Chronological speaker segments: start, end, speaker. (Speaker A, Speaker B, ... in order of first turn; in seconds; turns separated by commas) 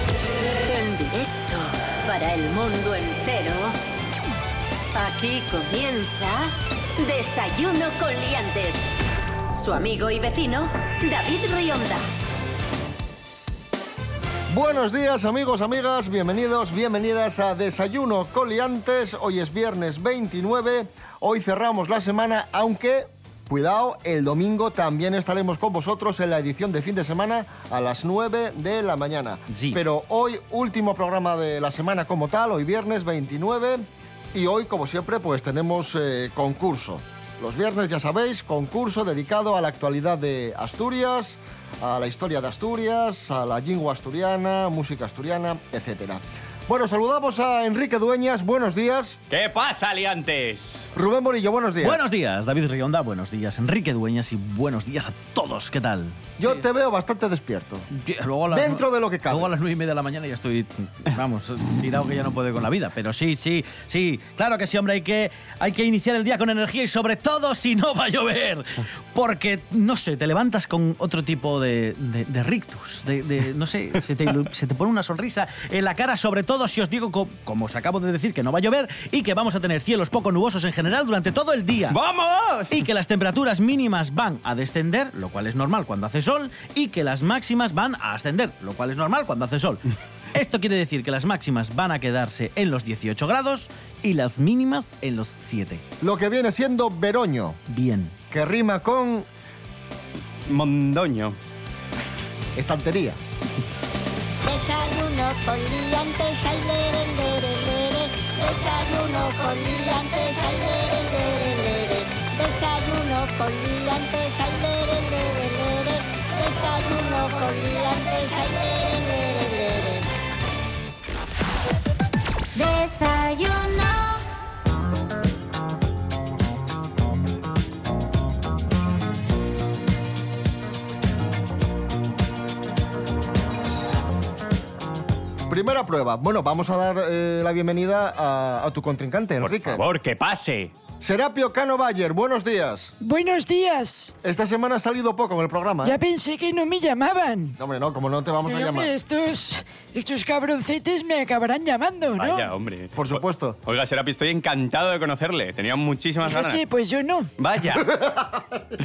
Speaker A: 0.5-3.8, Speaker A: 4.9-8.8, Speaker A: 9.6-12.0, Speaker B: 14.5-49.2, Speaker C: 29.5-29.8, Speaker D: 49.3-50.9, Speaker B: 50.9-52.0, Speaker C: 51.8-56.2, Speaker B: 56.4-57.9, Speaker C: 57.9-82.0, Speaker B: 58.5-59.5, Speaker D: 81.9-82.8, Speaker C: 82.7-95.8, Speaker B: 96.0-97.6, Speaker C: 97.7-98.2, Speaker B: 98.3-99.3, Speaker D: 100.5-101.4, Speaker B: 102.5-103.2, Speaker E: 104.4-120.0, Speaker B: 135.5-139.8, Speaker D: 139.4-140.7, Speaker B: 141.0-142.9, Speaker F: 143.0-144.1, Speaker B: 144.2-146.0, Speaker F: 145.8-147.6, Speaker B: 147.6-148.9, Speaker F: 148.4-152.5, Speaker D: 152.2-156.6, Speaker B: 152.9-153.6, Speaker F: 156.2-157.3, Speaker D: 157.4-158.0, Speaker B: 157.8-158.7